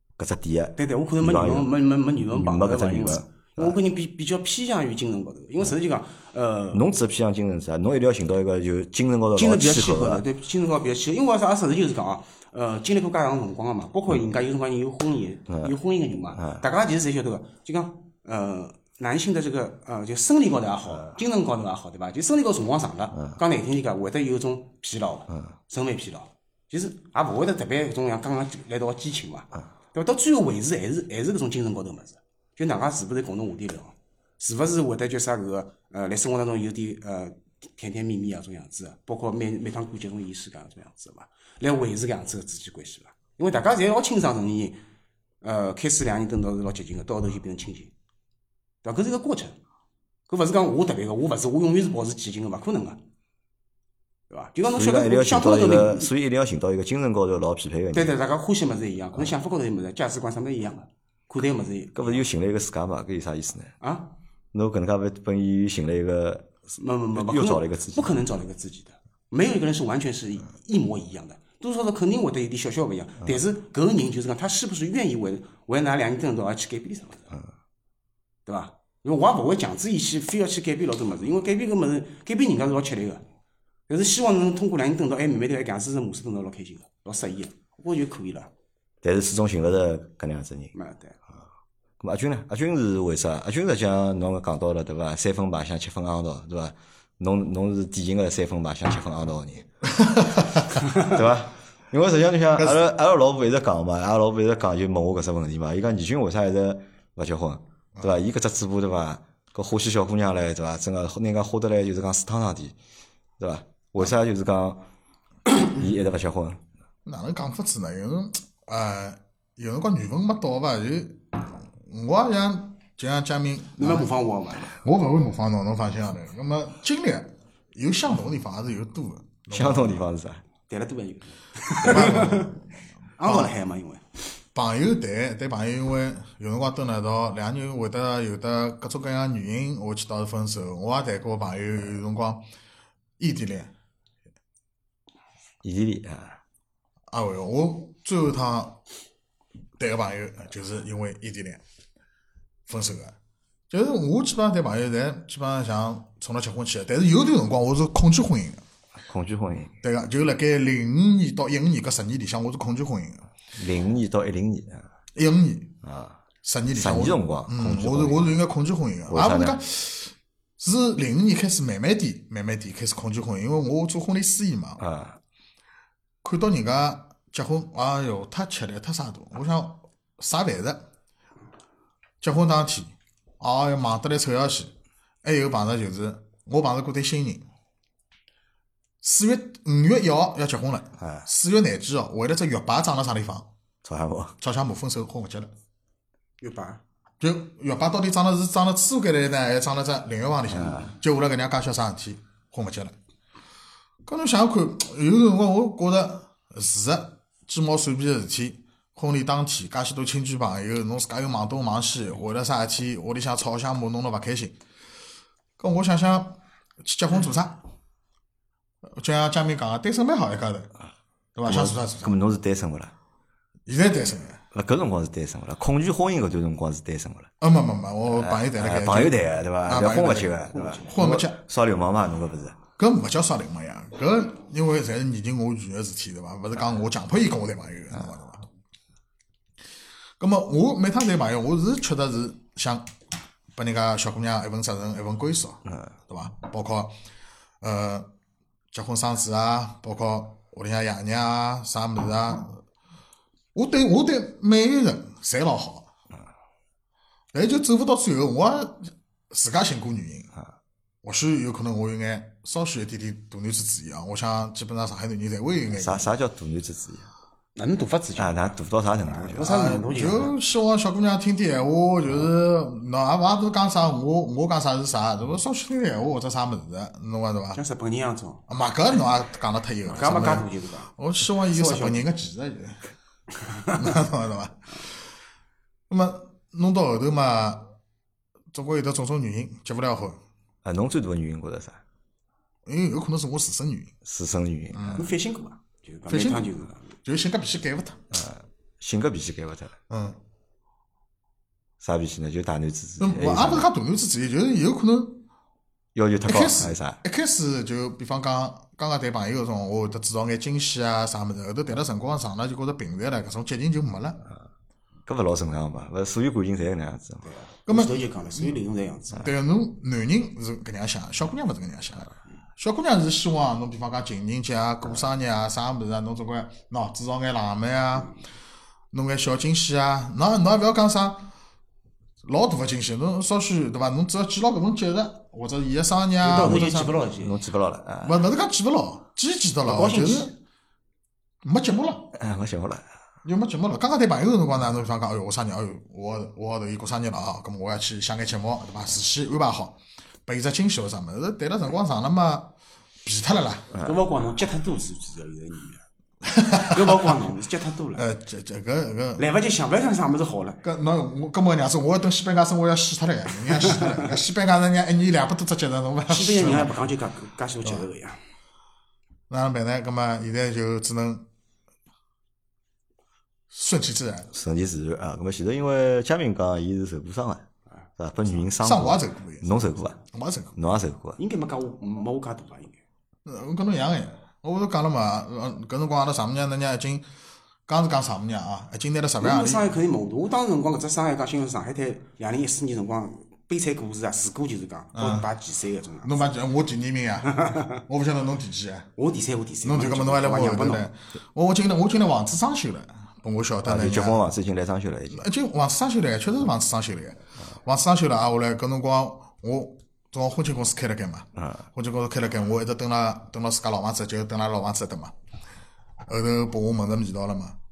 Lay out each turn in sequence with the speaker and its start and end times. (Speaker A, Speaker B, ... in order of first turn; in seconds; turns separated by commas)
Speaker A: 0.2-1.7, Speaker B: 0.8-6.9, Speaker A: 2.3-3.8, Speaker A: 6.7-10.2, Speaker B: 9.3-44.8, Speaker B: 45.4-47.9, Speaker B: 48.8-49.5, Speaker B: 50.3-53.0, Speaker B: 54.3-56.1, Speaker A: 54.7-58.1, Speaker B: 57.9-62.3, Speaker A: 61.9-63.7, Speaker B: 63.8-64.1, Speaker A: 64.5-66.6, Speaker B: 66.8-77.4, Speaker A: 67.1-68.2, Speaker B: 78.5-83.2, Speaker B: 83.9-88.5, Speaker A: 89.0-90.7, Speaker B: 90.7-91.2, Speaker A: 92.0-99.7, Speaker C: 100.0-100.4, Speaker A: 100.4-112.8, Speaker A: 113.4-114.8, Speaker A: 115.5-116.6, Speaker C: 117.0-124.1, Speaker B: 123.8-124.8, Speaker C: 124.7-130.1, Speaker A: 129.5-130.4, Speaker B: 130.7-132.6, Speaker C: 131.8-132.6, Speaker B: 133.2-134.0, Speaker C: 133.2-133.5, Speaker C: 134.5-142.4, Speaker C: 143.2-143.7, Speaker A: 145.6-146.4, Speaker C: 147.1-148.8, Speaker C: 149.8-151.6, Speaker C: 152.7-153.1, Speaker C: 153.7-158.6, Speaker A: 159.1-159.7, Speaker C: 159.8-163.2, Speaker A: 163.5-164.9, Speaker C: 165.1-165.8, Speaker A: 165.8-166.2, Speaker C: 166.4-174.8, Speaker A: 166.7-168.4, Speaker A: 169.1-169.6, Speaker A: 174.8-175.2, Speaker C: 176.2-180.8, Speaker C: 182.2-184.7, Speaker C: 185.2-187.4, Speaker C: 189.0-193.5, Speaker A: 191.0-191.2, Speaker A: 193.8-194.3, Speaker C: 194.4-195.5, Speaker B: 196.4-196.8, Speaker C: 197.2-202.9, Speaker A: 200.5-200.9, Speaker C: 204.1-214.5, Speaker C: 215.6-217.6, Speaker C: 218.9-220.7, Speaker C: 221.3-222.2, Speaker A: 221.4-222.9, Speaker C: 223.7-224.4, Speaker A: 224.5-227.3, Speaker C: 227.4-231.4, Speaker A: 228.1-232.6, Speaker B: 230.5-230.9, Speaker C: 232.8-238.4, Speaker C: 240.2-242.9, Speaker C: 243.5-246.9, Speaker C: 247.6-248.1, Speaker C: 248.7-252.6, Speaker C: 253.5-255.9, Speaker C: 257.3-260.3, Speaker C: 261.0-266.1, Speaker A: 265.7-267.1, Speaker B: 267.6-268.5, Speaker A: 268.1-269.5, Speaker B: 269.0-270.3, Speaker C: 269.4-277.6, Speaker B: 277.5-278.4, Speaker C: 278.5-282.8, Speaker B: 279.9-280.9, Speaker B: 281.4-282.1, Speaker C: 283.7-284.8, Speaker C: 285.9-287.7, Speaker C: 288.5-290.2, Speaker A: 290.6-291.8, Speaker C: 292.6-293.9, Speaker A: 294.0-295.1, Speaker C: 294.7-295.1, Speaker B: 294.9-296.9, Speaker C: 296.1-298.0, Speaker A: 298.1-299.8, Speaker C: 299.9-300.2, Speaker A: 301.8-303.7, Speaker C: 303.0-305.2, Speaker A: 305.9-307.0, Speaker C: 306.2-314.2, Speaker A: 315.1-317.2, Speaker B: 317.2-319.3, Speaker C: 317.7-318.5, Speaker C: 319.1-328.1, Speaker C: 328.9-331.3, Speaker C: 332.2-337.0, Speaker B: 336.2-337.4, Speaker A: 337.2-338.2, Speaker C: 338.0-340.3, Speaker B: 339.6-340.3, Speaker C: 341.4-342.1, Speaker A: 342.1-342.8, Speaker C: 343.2-352.5, Speaker C: 353.0-353.8, Speaker B: 353.8-355.8, Speaker C: 356.2-357.2, Speaker B: 356.6-358.0, Speaker C: 357.9-359.2, Speaker B: 359.2-360.6, Speaker C: 360.6-366.7, Speaker B: 363.6-364.1, Speaker B: 366.1-368.2, Speaker C: 369.3-371.2, Speaker C: 373.5-374.3, Speaker A: 374.3-377.4, Speaker A: 378.0-380.0, Speaker C: 378.6-380.8, Speaker A: 380.6-381.2, Speaker B: 381.2-382.8, Speaker C: 383.2-387.0, Speaker C: 387.7-389.7, Speaker B: 389.2-396.3, Speaker C: 394.9-395.3, Speaker C: 396.0-398.9, Speaker B: 397.3-397.8, Speaker B: 399.0-400.8, Speaker C: 399.6-404.3, Speaker A: 403.6-405.3, Speaker C: 405.1-415.1, Speaker A: 411.4-411.6, Speaker C: 416.1-417.6